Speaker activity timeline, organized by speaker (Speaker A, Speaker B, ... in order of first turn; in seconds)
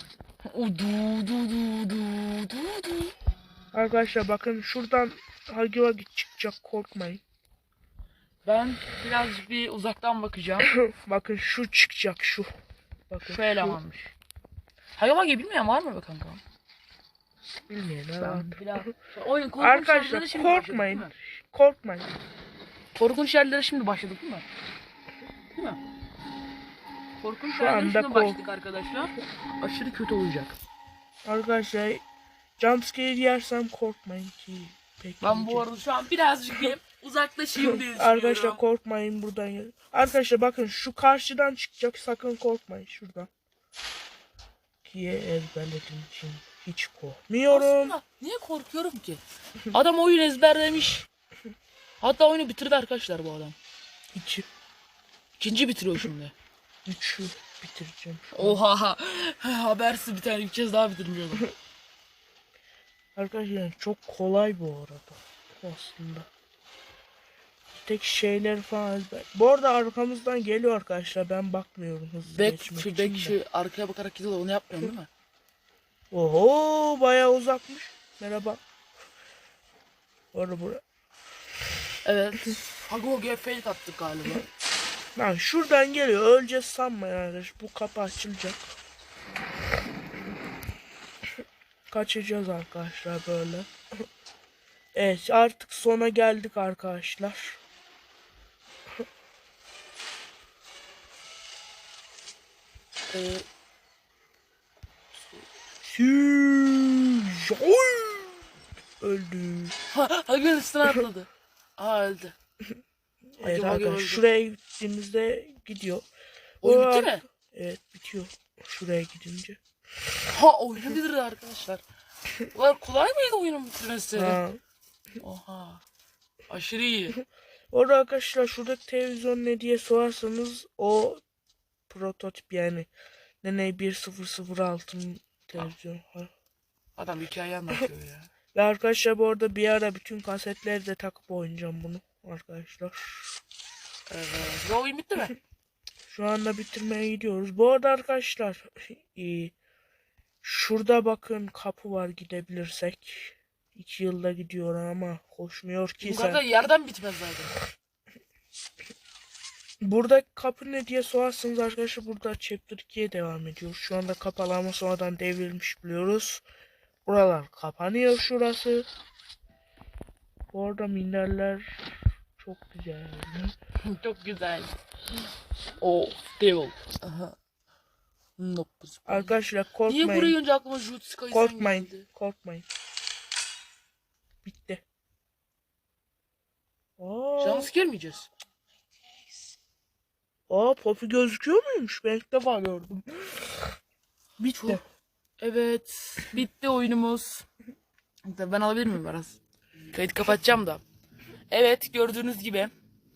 Speaker A: 0.4-3.2, 8.4-10.7, 13.2-14.1, 15.0-16.4, 18.2-21.1, 22.9-24.5, 25.6-25.8, 27.2-30.6, 35.2-38.6, 47.5-49.2, 49.7-51.1, 52.0-53.5, 55.4-56.3, 58.3-61.5, 72.3-75.1, 82.0-84.5, 103.1-103.5, 105.2-105.5, 109.9-112.3, 113.4-114.2, 116.6-117.2, 120.3-121.8, 122.5-124.4, 125.2-125.8, 126.5-127.2, 137.0-138.3, 144.1-145.4, 156.0-157.6, 173.8-174.8, 175.8-177.4, 178.4-179.3, 179.9-182.1, 187.4-188.3, 195.4-197.5, 198.2-199.4, 199.9-200.8, 201.5-202.7
Speaker B: 3.7-7.2, 10.7-12.5, 13.1-13.8, 17.6-18.9, 19.6-22.1, 27.5-28.4, 31.2-32.0, 32.6-35.7, 37.9-43.3, 44.8-48.0, 54.1-54.5, 56.9-58.6, 63.2-66.3, 67.7-73.4, 76.1-78.6, 80.3-80.8, 85.2-88.7, 91.9-93.7, 95.0-97.6, 105.8-108.4, 109.0-109.8, 113.4-116.1, 116.6-119.6, 124.2-124.6, 127.7-131.2, 131.9-132.9, 133.4-136.3, 138.5-143.4, 146.1-149.6, 150.4-156.4, 159.8-166.4, 167.1-168.9, 170.5-171.8, 172.4-173.5, 179.1-180.4, 181.3-182.7, 184.4-184.8, 187.0-187.7, 190.5-193.3, 194.4-194.8